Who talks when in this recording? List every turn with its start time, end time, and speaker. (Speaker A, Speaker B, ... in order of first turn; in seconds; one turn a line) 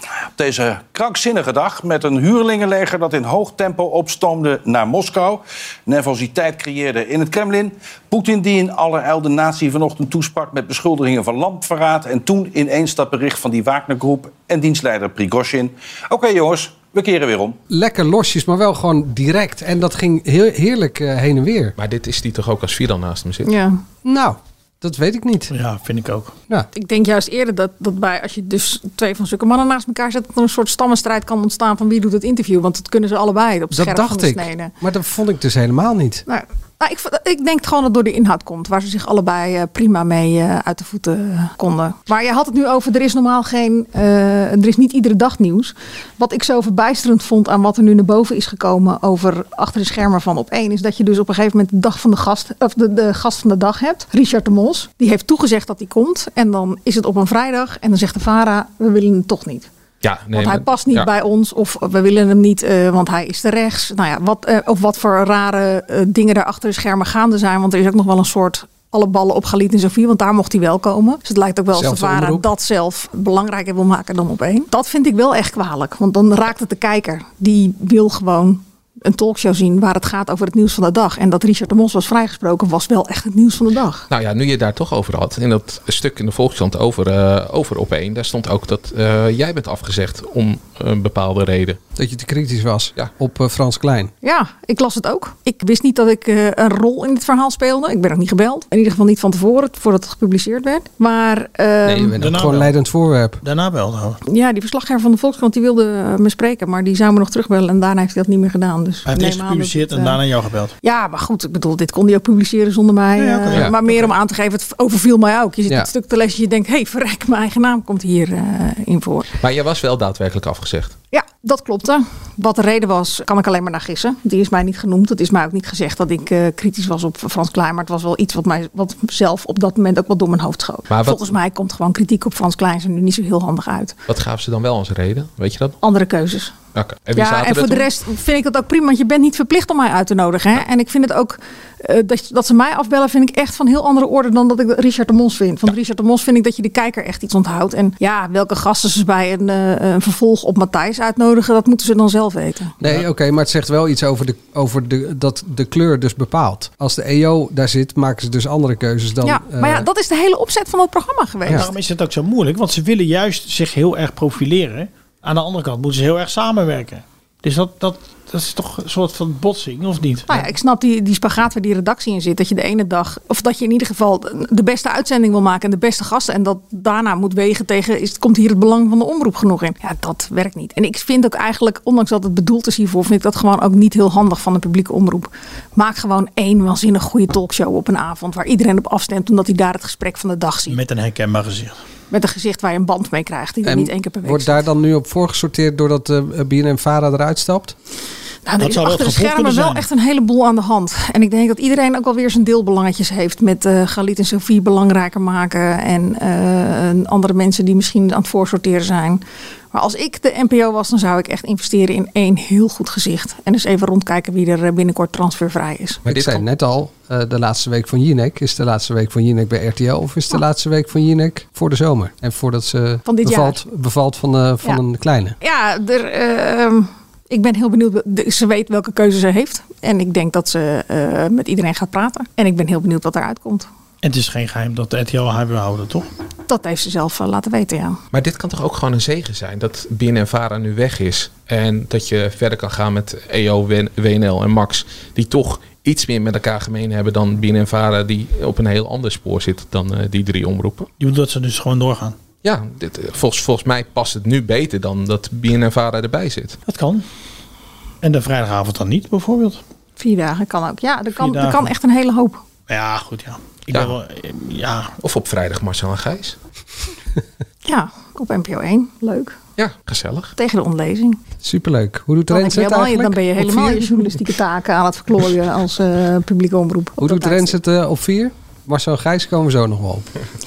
Speaker A: 0.4-17.6
Speaker B: 17.7-21.7
Speaker C: 21.8-23.6
Speaker D: 23.4-23.8
Speaker B: 24.0-25.5
Speaker E: 25.5-26.4
Speaker D: 26.7-34.7
Speaker B: 33.7-36.2
Speaker D: 36.3-59.7
Speaker C: 60.0-61.1
Speaker D: 60.3-84.0
Speaker B: 71.7-72.5
Speaker C: 84.1-91.8
Speaker B: 92.0-94.1
Speaker D: 94.2-102.1
Speaker B: 102.0-103.4
Speaker E: 102.2-102.7
Speaker E: 103.4-104.2
Speaker D: 104.3-110.2
Speaker E: 109.0-110.7
Speaker D: 110.8-119.3
Speaker E: 113.2-114.1
Speaker C: 119.4-121.0
Speaker D: 121.1-133.9
Speaker C: 130.9-131.2
Speaker C: 134.1-135.8
Speaker D: 135.8-136.5
Speaker C: 136.7-137.9
Speaker D: 137.1-152.7
Speaker B: 152.8-159.8
Speaker D: 159.2-161.7
Speaker E: 161.5-170.3
Speaker D: 170.3-190.8
Speaker E: 190.7-191.8
Speaker D: 192.1-194.6
Speaker B: 193.6-197.7
Speaker D: 198.4-209.2
Speaker E: 198.6-199.9
Speaker D: 209.7-216.0
Speaker C: 216.1-216.4
Speaker B: 216.1-225.3
Speaker D: 223.0-223.6
Speaker D: 225.4-233.7
Speaker E: 234.0-236.1
Speaker D: 236.5-238.0
Speaker C: 238.1-250.9
Speaker E: 251.0-252.2
Speaker C: 252.4-256.6
Speaker E: 256.7-257.0
Speaker E: 258.0-259.6
Speaker D: 260.0-262.4
Speaker E: 261.2-261.7
Speaker E: 262.7-265.0
Speaker C: 265.0-266.4
Speaker D: 267.6-269.4
Speaker C: 269.6-270.3
Speaker D: 270.4-271.2
Speaker B: 271.4-274.1
Speaker D: 272.3-277.6
Speaker B: 277.0-280.1